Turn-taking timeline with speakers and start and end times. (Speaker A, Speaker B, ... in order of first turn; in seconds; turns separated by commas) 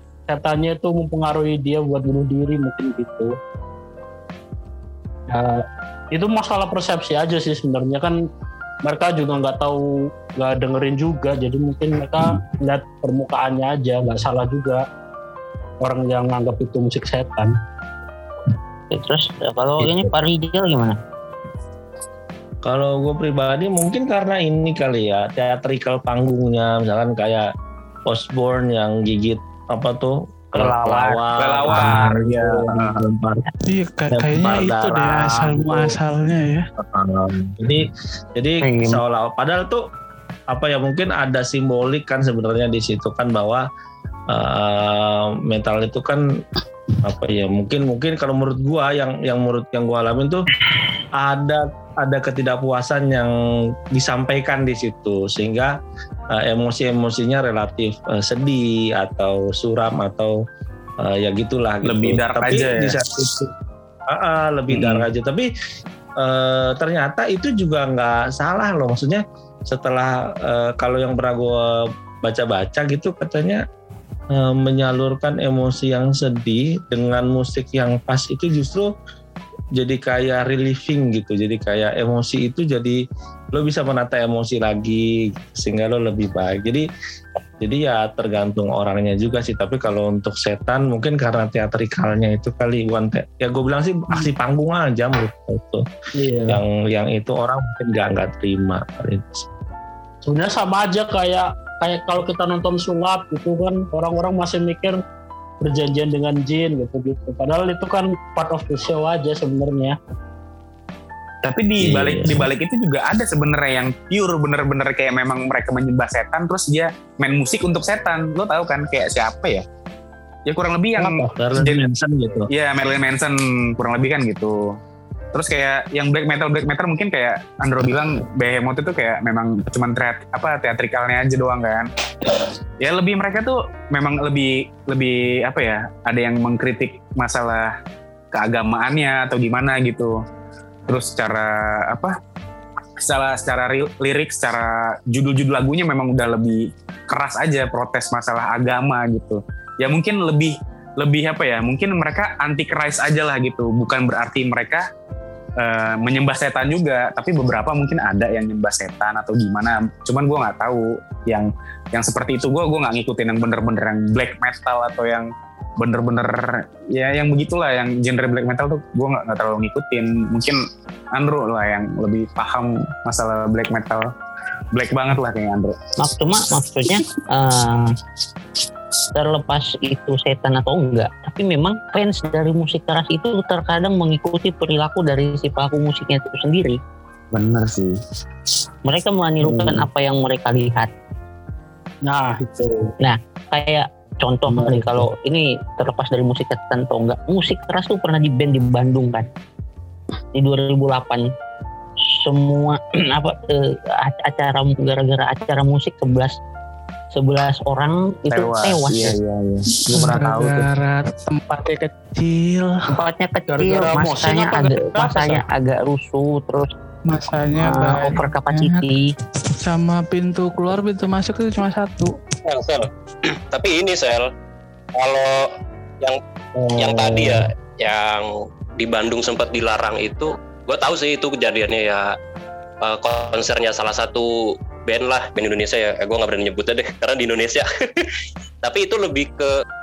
Speaker A: 0.3-3.3, Speaker A: 5.3-8.2, Speaker A: 8.8-9.8, Speaker A: 10.3-14.8, Speaker A: 15.8-17.5, Speaker B: 18.9-21.0, Speaker C: 22.6-27.5, Speaker C: 28.1-33.5, Speaker B: 30.5-31.9, Speaker D: 31.4-33.0, Speaker E: 33.6-36.6, Speaker C: 34.1-35.9, Speaker C: 36.8-39.8, Speaker B: 38.6-39.0, Speaker C: 40.5-43.6, Speaker C: 44.3-46.2, Speaker C: 47.0-50.5, Speaker C: 51.2-53.3, Speaker C: 53.9-55.7, Speaker C: 56.3-60.3, Speaker C: 61.0-63.5, Speaker D: 61.8-63.0, Speaker C: 64.1-65.5, Speaker D: 64.7-65.1, Speaker C: 66.2-73.6, Speaker C: 74.3-78.9, Speaker C: 79.8-83.0, Speaker C: 83.5-86.8, Speaker C: 87.6-95.8, Speaker A: 96.2-96.6, Speaker C: 96.5-99.4, Speaker A: 100.2-105.0, Speaker A: 105.6-110.0, Speaker D: 111.4-119.6, Speaker C: 111.8-112.5, Speaker D: 120.5-121.8, Speaker C: 121.0-122.5, Speaker D: 122.5-124.6, Speaker D: 125.3-131.9, Speaker D: 132.8-137.7, Speaker D: 138.3-140.1, Speaker D: 140.9-142.1, Speaker D: 143.0-154.8, Speaker D: 155.6-165.3, Speaker D: 165.8-170.6, Speaker D: 171.1-174.1, Speaker D: 174.7-175.8, Speaker B: 176.0-177.9, Speaker B: 179.1-186.8, Speaker D: 187.3-188.0, Speaker B: 188.8-190.9, Speaker A: 189.4-189.8, Speaker A: 192.0-192.9, Speaker B: 193.0-199.3, Speaker A: 194.5-195.0, Speaker B: 200.3-201.3, Speaker B: 202.0-206.3, Speaker B: 207.1-209.1, Speaker D: 208.3-210.7, Speaker E: 209.9-212.8, Speaker B: 212.9-216.7, Speaker A: 213.5-215.4, Speaker E: 217.1-218.9, Speaker B: 217.6-219.1, Speaker E: 219.4-222.1, Speaker F: 222.4-224.3, Speaker F: 225.0-226.2, Speaker A: 226.5-227.5, Speaker F: 226.8-232.1, Speaker F: 232.8-238.1, Speaker F: 238.6-239.5